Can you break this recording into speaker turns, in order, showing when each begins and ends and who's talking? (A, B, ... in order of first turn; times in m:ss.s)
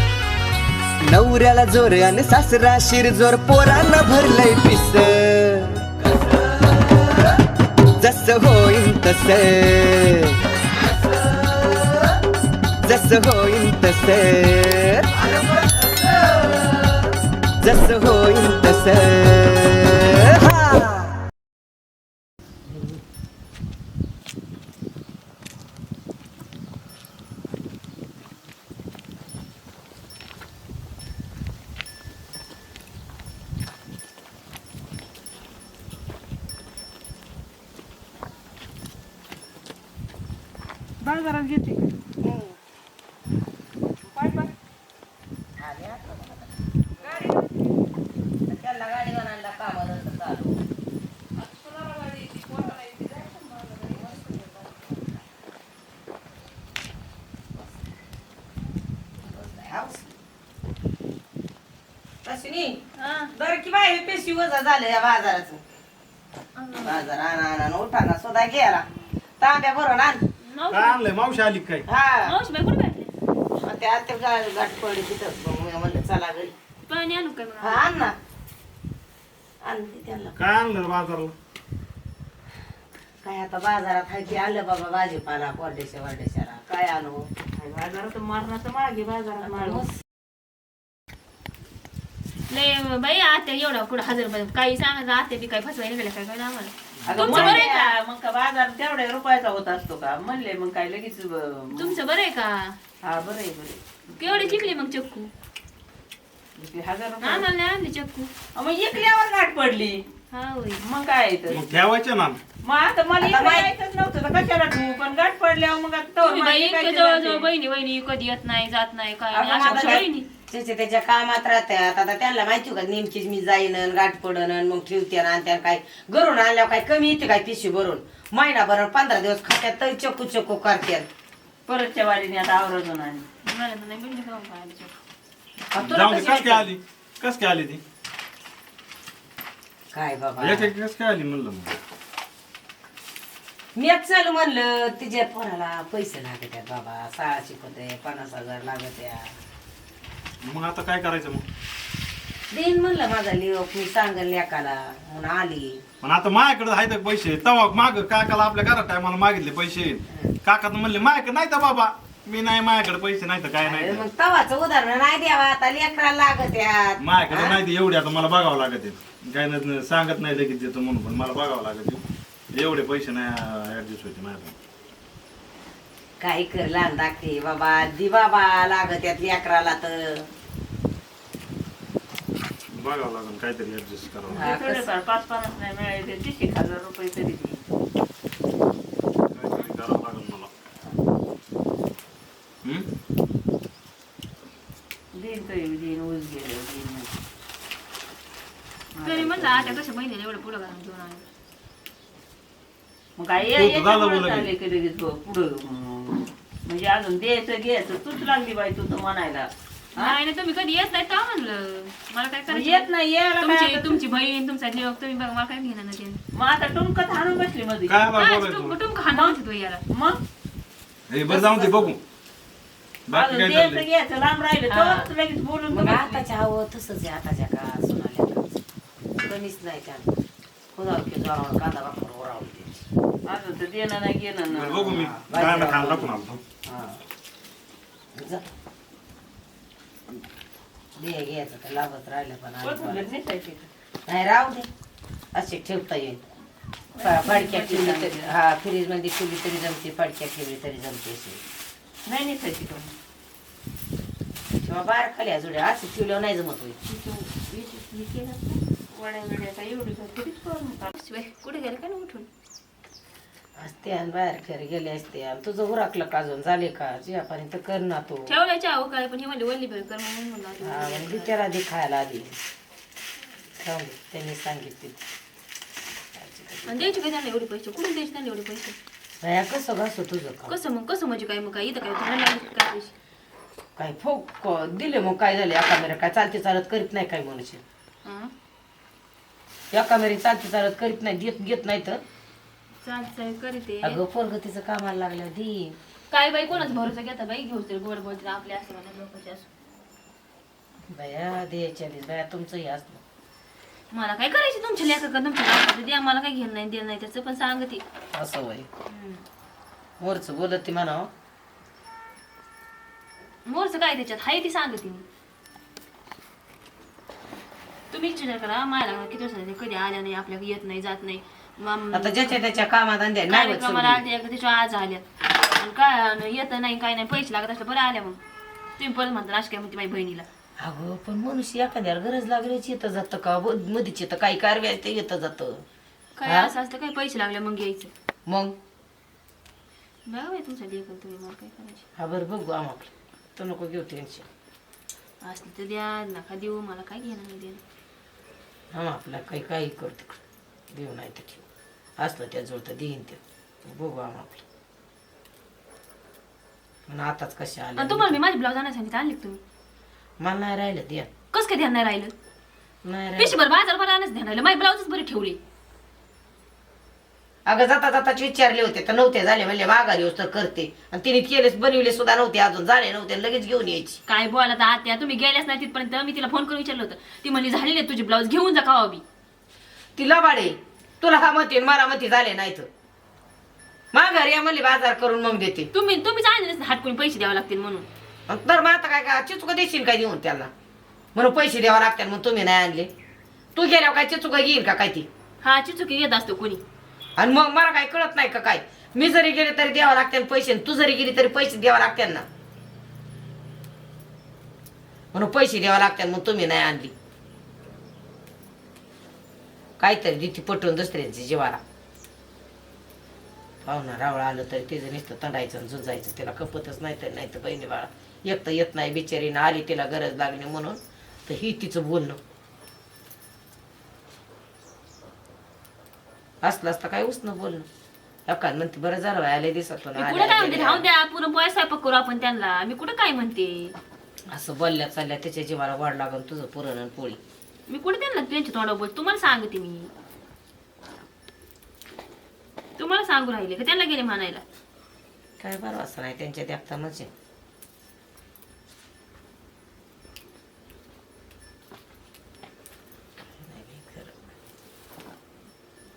0:01.0-0:05.8 A
0:08.0-0:10.4 A
0:12.8-0:15.1 A
0:17.6-0:21.2 A
0:41.0-0:41.9 B
0:42.2-0:42.6 C
0:44.1-0:44.5 B
0:45.6-0:47.3 C
0:48.5-0:50.7 C
0:51.4-0:54.3 B
0:53.9-0:54.8 C
0:59.2-1:00.1 C
1:02.2-1:02.8 C
1:03.0-1:03.3 D
1:03.3-1:05.6 C
1:06.6-1:07.1 D
1:06.7-1:08.9 C
1:09.4-1:10.2 C
1:10.4-1:11.0 D
1:10.7-1:11.8 E
1:11.9-1:12.3 C
1:12.2-1:13.1 D
1:13.6-1:16.5 C
1:16.9-1:17.9 D
1:17.6-1:18.1 C
1:19.6-1:20.4 C
1:20.4-1:21.3 E
1:23.2-1:27.3 C
1:27.5-1:29.9 B
1:29.5-1:30.0 C
1:32.5-1:37.9 D
1:37.0-1:37.4 E
1:37.1-1:42.0 B
1:41.7-1:42.8 D
1:43.0-1:44.7 B
1:44.2-1:45.3 D
1:46.6-1:47.5 B
1:47.2-1:48.3 D
1:48.5-1:50.0 B
1:50.3-1:50.8 D
1:50.8-1:51.6 B
1:51.5-1:52.4 E
1:52.6-1:57.5 B
1:53.2-1:53.7 C
1:56.2-2:00.3 D
1:59.3-2:11.1 C
2:11.6-2:13.2 B
2:13.4-2:14.9 D
2:15.7-2:16.7 C
2:15.8-2:17.8 E
2:19.9-2:20.7 C
2:20.4-2:21.8 E
2:23.7-2:29.3 C
2:30.4-2:31.4 E
2:32.5-2:35.8 C
2:36.0-2:44.1 E
2:43.6-2:47.6 C
2:47.0-2:52.0 E
2:52.5-2:54.5 E
2:56.2-3:00.3 C
3:02.7-3:04.6 E
3:04.3-3:04.9 C
3:04.3-3:07.6 B
3:09.3-3:10.5 E
3:15.1-3:17.1 B
3:18.9-3:19.8 B
3:19.0-3:21.2 D
3:23.2-3:30.1 B
3:23.5-3:24.5 E
3:30.0-3:32.9 D
3:32.5-3:34.0 B
3:33.4-3:36.2 D
3:36.3-3:38.1 B
3:37.9-3:38.8 E
3:38.1-3:39.8 D
3:39.0-3:39.4 B
3:39.9-3:40.2 B
3:41.1-3:42.0 E
3:41.3-3:41.9 C
3:43.1-3:43.9 E
3:43.1-3:46.2 B
3:44.7-3:45.1 C
3:45.7-3:48.6 C
3:49.2-3:50.1 C
3:50.7-3:52.8 C
3:53.2-3:55.1 B
3:54.5-3:56.4 E
3:54.9-3:57.0 C
3:58.1-3:58.5 C
4:01.0-4:03.1 C
4:02.6-4:03.7 B
4:04.1-4:04.7 C
4:05.3-4:06.2 C
4:06.9-4:08.3 B
4:07.0-4:11.4 C
4:12.0-4:12.9 B
4:14.6-4:16.8 C
4:16.8-4:20.9 B
4:21.0-4:22.3 D
4:23.6-4:28.3 C
4:28.3-4:31.4 D
4:30.6-4:32.4 C
4:33.6-4:35.0 C
4:36.1-4:37.0 C
4:36.6-4:38.8 D
4:39.2-4:40.5 C
4:40.5-4:42.9 D
4:43.8-4:47.6 C
4:48.0-4:48.3 D
4:49.7-4:52.0 C
4:52.8-4:54.0 D
4:53.8-4:55.8 C
4:56.1-4:59.5 D
4:56.5-4:56.8 C
5:00.9-5:03.0 C
5:03.9-5:07.8 D
5:08.1-5:08.7 C
5:08.9-5:09.2 D
5:10.0-5:11.1 C
5:13.4-5:15.0 D
5:17.9-5:22.4 D
5:21.9-5:24.0 C
5:23.3-5:28.2 D
5:28.8-5:30.3 D
5:30.6-5:35.6 C
5:36.2-5:37.9 D
5:36.2-5:36.5 C
5:38.3-5:38.6 C
5:40.0-5:41.8 D
5:42.0-5:44.2 C
5:45.2-5:47.6 D
5:48.7-5:50.2 C
5:50.7-5:51.4 C
5:52.0-5:54.4 C
5:56.9-5:58.2 C
5:57.8-5:59.4 D
6:00.2-6:01.1 C
6:01.3-6:02.1 D
6:02.8-6:03.4 C
6:03.2-6:05.4 D
6:07.5-6:14.0 C
6:14.1-6:19.0 D
6:20.0-6:22.7 C
6:23.9-6:25.7 C
6:25.7-6:27.9 D
6:28.3-6:30.5 C
6:31.1-6:32.9 C
6:33.5-6:35.1 C
6:35.4-6:36.6 D
6:37.2-6:42.2 C
6:45.1-6:46.9 C
6:49.8-6:51.6 C
6:53.6-7:02.2 C
7:06.4-7:07.7 C
7:08.3-7:10.9 C
7:09.9-7:13.7 D
7:14.3-7:17.2 C
7:17.7-7:19.9 D
7:22.8-7:24.4 D
7:25.4-7:27.1 C
7:33.4-7:34.2 C